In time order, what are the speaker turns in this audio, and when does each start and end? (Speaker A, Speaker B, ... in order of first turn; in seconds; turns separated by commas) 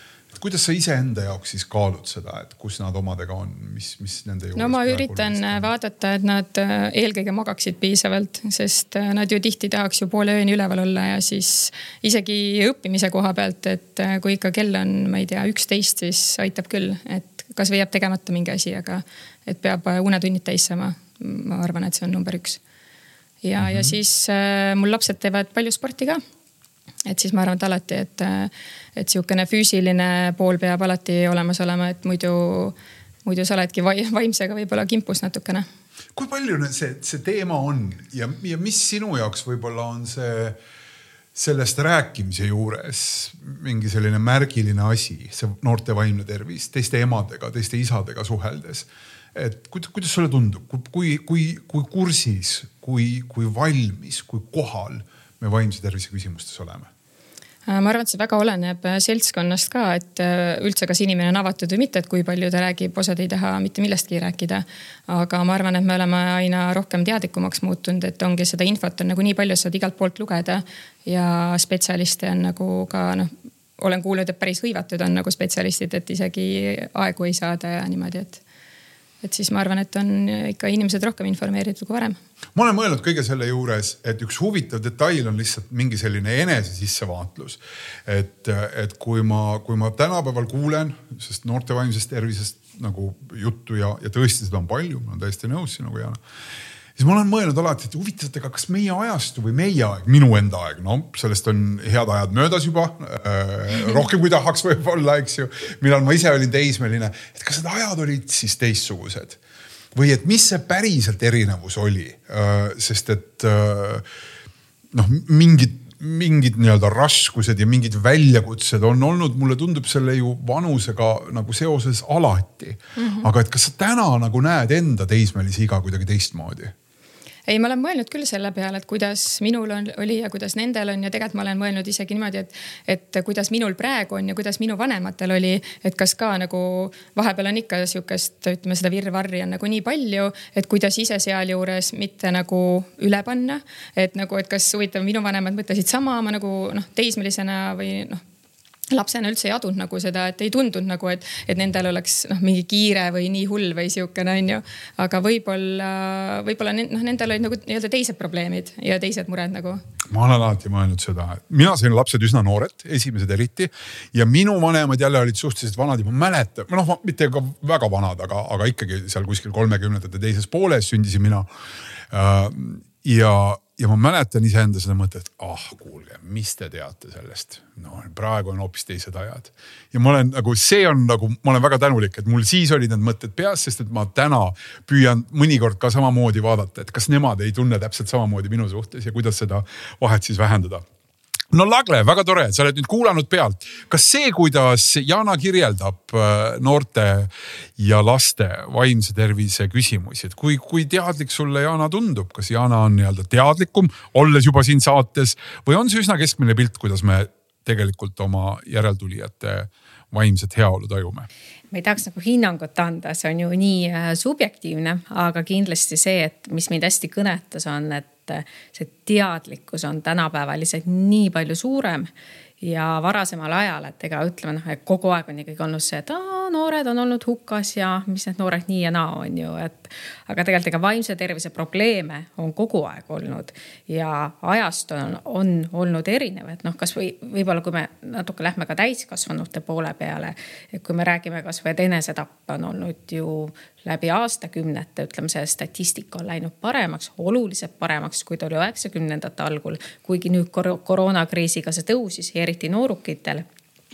Speaker A: 0.3-5.6, Speaker B: 4.5-22.6, Speaker B: 23.4-26.2, Speaker A: 23.6-23.9, Speaker B: 27.1-35.6, Speaker A: 36.1-40.6, Speaker A: 41.3-56.9, Speaker B: 57.6-78.4, Speaker B: 79.2-82.2, Speaker A: 82.5-96.2, Speaker A: 97.0-109.4, Speaker A: 109.9-114.0, Speaker A: 114.9-126.7, Speaker B: 123.0-123.3, Speaker B: 127.5-148.2, Speaker B: 148.9-159.8, Speaker A: 160.1-171.5, Speaker A: 172.1-190.8, Speaker A: 191.5-211.3, Speaker C: 211.7-253.4